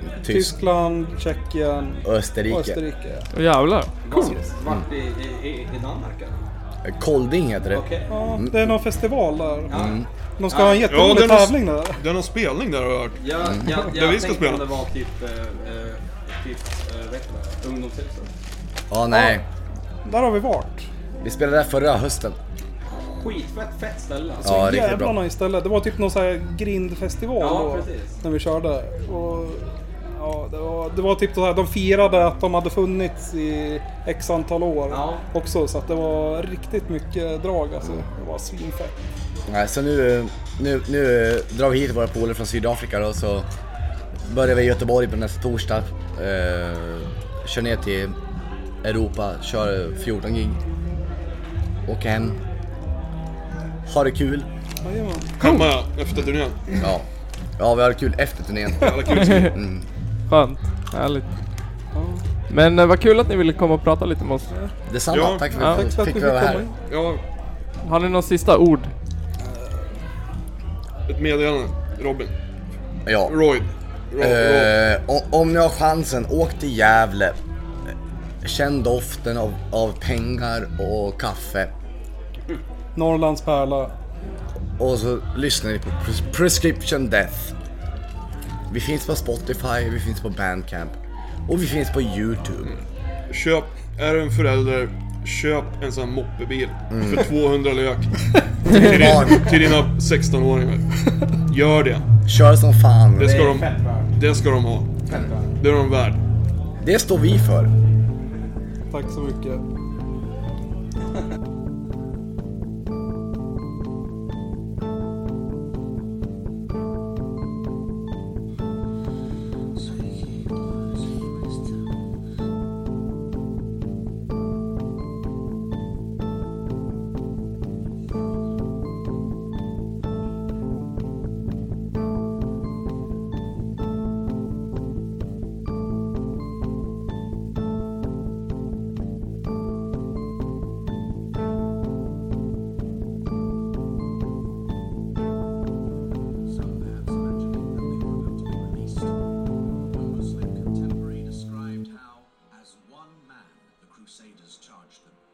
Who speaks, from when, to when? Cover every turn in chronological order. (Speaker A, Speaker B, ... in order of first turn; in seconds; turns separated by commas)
Speaker A: 0.2-0.6, Speaker B: 0.2-3.3, Speaker A: 2.0-2.8, Speaker C: 3.3-4.4, Speaker D: 4.0-6.4, Speaker A: 6.8-7.8, Speaker D: 7.7-8.1, Speaker B: 8.1-12.0, Speaker A: 8.4-8.7, Speaker D: 9.7-11.1, Speaker A: 9.7-10.1, Speaker E: 10.9-14.7, Speaker D: 13.2-18.3, Speaker A: 18.9-19.4, Speaker B: 19.1-19.4, Speaker B: 20.1-20.9, Speaker A: 21.2-22.4, Speaker D: 22.9-24.7, Speaker A: 24.4-25.2, Speaker B: 24.4-39.0, Speaker D: 27.4-28.2, Speaker D: 34.9-35.3, Speaker A: 39.5-43.5, Speaker A: 44.2-48.1, Speaker A: 48.8-50.6, Speaker A: 51.9-52.4, Speaker A: 53.9-54.5, Speaker B: 54.8-55.3, Speaker E: 55.4-56.6, Speaker C: 55.4-55.7, Speaker A: 56.8-57.1, Speaker A: 57.6-59.9, Speaker E: 58.8-59.6, Speaker C: 59.2-59.5, Speaker C: 60.3-61.3, Speaker B: 61.9-62.2, Speaker C: 62.5-64.5, Speaker A: 64.9-66.7, Speaker E: 65.1-65.5, Speaker B: 65.5-66.8, Speaker C: 65.6-65.8, Speaker E: 66.9-67.2, Speaker C: 67.8-68.9, Speaker E: 71.1-72.3, Speaker A: 73.1-73.4, Speaker E: 73.2-74.8, Speaker A: 74.2-77.4, Speaker A: 78.4-81.7, Speaker B: 83.0-83.9, Speaker A: 84.8-87.5, Speaker A: 88.7-91.0, Speaker A: 91.5-92.7, Speaker E: 92.6-100.8, Speaker A: 96.9-97.3, Speaker A: 98.7-99.6, Speaker E: 101.5-102.1, Speaker A: 102.3-103.4, Speaker E: 103.2-105.0, Speaker D: 103.2-104.2, Speaker D: 105.1-105.6, Speaker E: 105.6-106.2, Speaker A: 106.8-107.7, Speaker B: 108.9-109.6